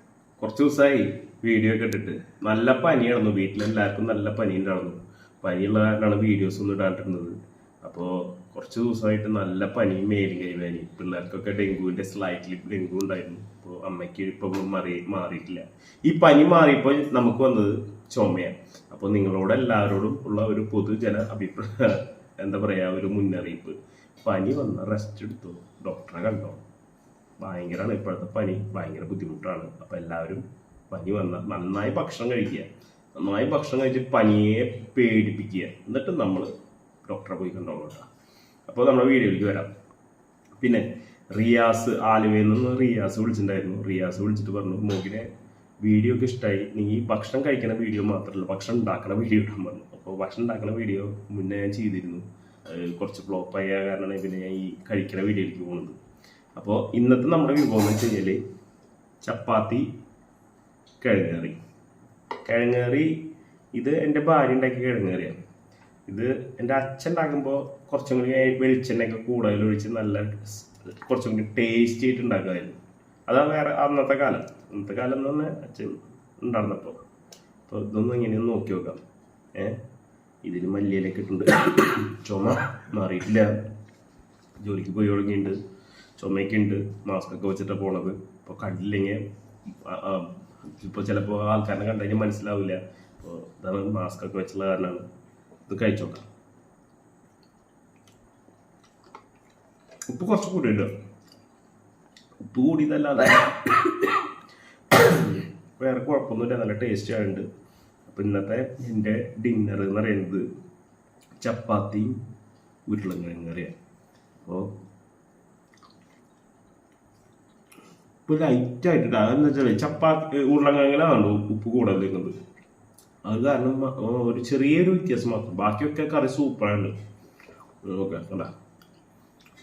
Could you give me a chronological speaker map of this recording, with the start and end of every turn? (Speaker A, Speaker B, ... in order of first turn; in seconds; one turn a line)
Speaker A: 0.4-26.6
Speaker A: 27.4-36.5
Speaker A: 37.1-38.1
Speaker A: 38.7-39.7
Speaker A: 40.6-45.3
Speaker A: 45.8-56.0
Speaker A: 56.6-58.4
Speaker A: 59.2-59.9
Speaker A: 61.0-61.6
Speaker A: 62.5-63.1
Speaker A: 63.7-65.4
Speaker A: 66.1-77.0
Speaker A: 77.7-79.0
Speaker A: 80.4-83.6
Speaker A: 84.6-85.6
Speaker A: 86.2-95.0
Speaker A: 95.7-96.2
Speaker A: 100.1-100.9
Speaker A: 102.4-104.3
Speaker A: 104.9-107.5
Speaker A: 108.1-110.5
Speaker A: 111.4-112.2
Speaker A: 112.9-113.7
Speaker A: 114.4-114.7
Speaker A: 118.3-122.3
Speaker A: 123.2-127.0
Speaker A: 127.8-128.5